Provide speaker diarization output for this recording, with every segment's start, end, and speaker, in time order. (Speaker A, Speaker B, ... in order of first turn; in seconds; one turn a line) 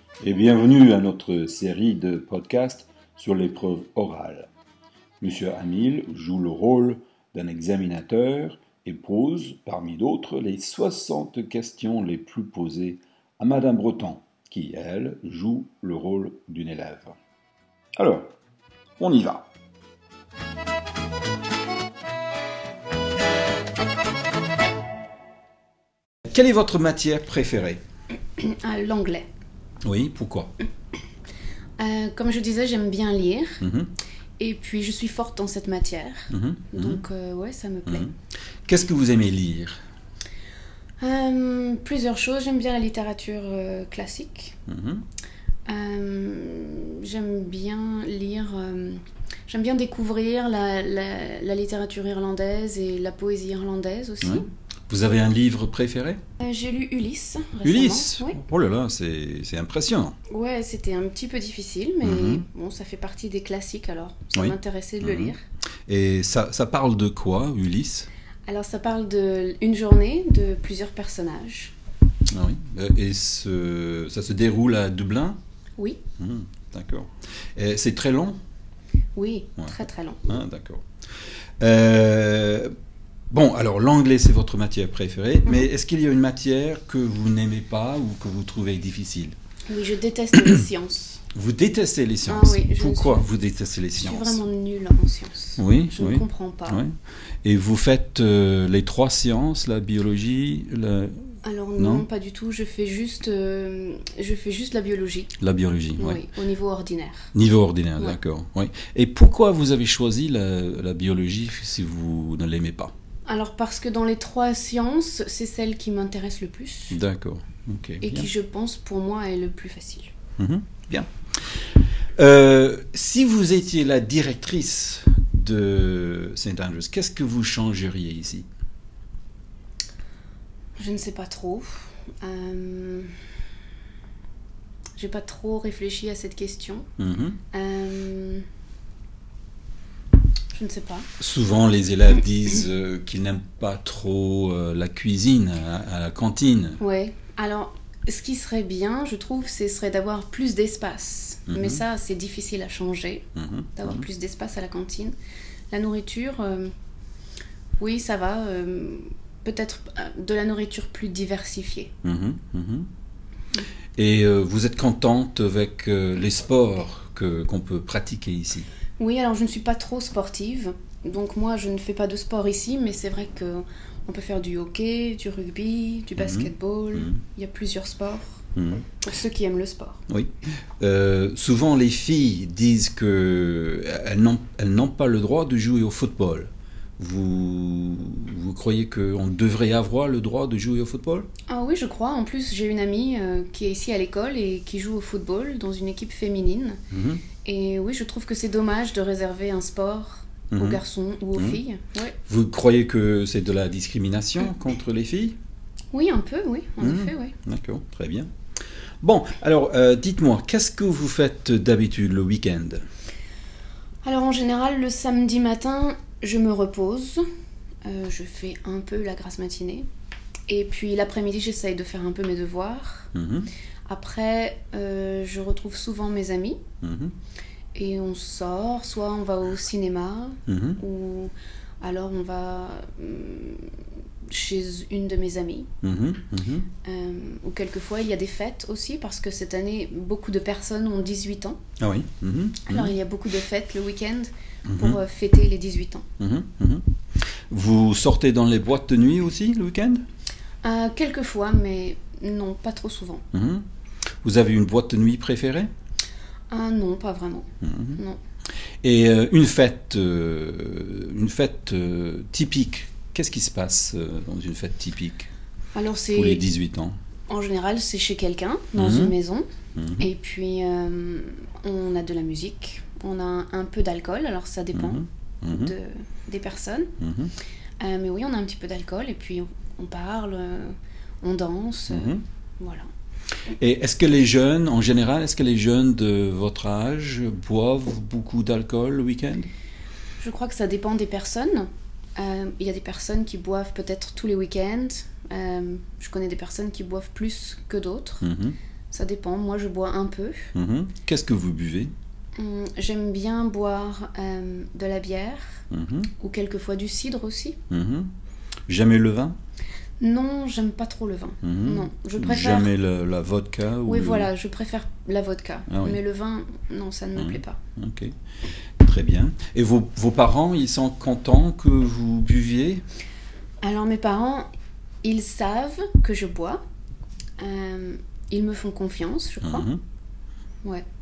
Speaker A: 0.2-4.5
Speaker A: 5.2-17.1
Speaker A: 18.0-18.3
Speaker A: 19.0-19.5
Speaker A: 26.3-27.8
Speaker B: 28.4-29.3
Speaker A: 29.8-30.5
Speaker B: 31.8-33.6
Speaker A: 33.6-33.9
Speaker B: 34.4-38.1
Speaker A: 36.3-37.0
Speaker A: 37.9-38.1
Speaker A: 38.7-39.8
Speaker B: 41.0-44.6
Speaker A: 44.7-45.0
Speaker B: 45.7-54.5
Speaker A: 54.2-56.2
Speaker B: 56.4-58.4
Speaker A: 57.6-60.1
Speaker B: 60.3-65.4
Speaker A: 62.0-62.4
Speaker A: 64.3-65.3
Speaker A: 65.9-68.1
Speaker B: 68.5-71.7
Speaker A: 72.3-75.4
Speaker A: 76.2-78.4
Speaker B: 79.1-80.3
Speaker A: 80.3-80.8
Speaker A: 81.6-82.7
Speaker A: 83.3-89.3
Speaker B: 89.7-91.2
Speaker A: 91.3-94.4
Speaker B: 92.3-93.3
Speaker B: 94.0-96.8
Speaker A: 95.6-102.0
Speaker B: 101.4-105.3
Speaker A: 105.4-106.2
Speaker B: 106.0-107.3
Speaker A: 107.3-112.9
Speaker B: 113.3-117.0
Speaker A: 116.9-118.3
Speaker B: 118.0-120.1
Speaker A: 120.4-121.1
Speaker A: 122.2-128.4
Speaker B: 130.8-133.1
Speaker B: 135.0-136.8
Speaker A: 137.0-137.4
Speaker B: 137.5-138.4
Speaker B: 140.5-141.1
Speaker A: 141.2-146.8
Speaker B: 146.8-153.2
Speaker A: 151.5-151.8
Speaker A: 153.3-154.0
Speaker B: 153.8-155.1
Speaker B: 155.7-156.7
Speaker B: 157.8-161.9
Speaker A: 162.0-162.9
Speaker A: 164.0-168.7
Speaker B: 169.0-178.4
Speaker A: 176.2-177.2
Speaker A: 178.5-178.9
Speaker B: 179.0-180.0
Speaker A: 180.1-191.3
Speaker B: 191.5-196.8
Speaker A: 196.9-197.2
Speaker B: 197.4-202.2
Speaker A: 200.5-200.8
Speaker A: 202.3-205.4
Speaker B: 205.9-207.3
Speaker A: 206.8-208.3
Speaker A: 209.0-212.8
Speaker B: 214.0-217.2
Speaker B: 217.8-219.8
Speaker B: 220.5-223.1
Speaker A: 223.1-223.5
Speaker B: 223.9-226.6
Speaker A: 226.8-227.1
Speaker B: 227.7-233.8
Speaker A: 230.5-230.8
Speaker B: 234.3-235.7
Speaker A: 235.8-236.7
Speaker B: 236.8-241.6
Speaker A: 241.8-242.9
Speaker B: 242.6-246.0
Speaker A: 244.7-245.0
Speaker A: 246.2-246.8
Speaker A: 247.5-250.0
Speaker B: 250.6-253.2
Speaker A: 253.3-253.6
Speaker A: 254.2-255.7
Speaker B: 256.5-258.2
Speaker A: 257.6-258.0
Speaker A: 258.8-265.3
Speaker B: 265.7-266.5
Speaker A: 266.1-266.9
Speaker B: 267.3-269.5
Speaker A: 268.8-269.1
Speaker A: 269.8-270.1
Speaker B: 270.0-276.9
Speaker A: 274.7-275.7
Speaker A: 277.0-277.3
Speaker B: 277.8-282.8
Speaker A: 281.9-282.2
Speaker A: 283.6-289.5
Speaker B: 290.2-298.2
Speaker A: 298.2-298.6
Speaker B: 298.9-300.5
Speaker A: 300.5-301.9
Speaker B: 302.4-305.6
Speaker A: 305.7-306.1
Speaker B: 306.2-307.6
Speaker A: 307.7-308.1
Speaker A: 308.7-309.4
Speaker B: 310.0-312.7
Speaker A: 311.4-314.3
Speaker B: 313.8-317.6
Speaker A: 315.7-316.0
Speaker A: 317.1-318.1
Speaker A: 318.8-322.8
Speaker B: 323.6-324.5
Speaker B: 325.0-326.6
Speaker B: 327.4-329.7
Speaker A: 329.4-329.8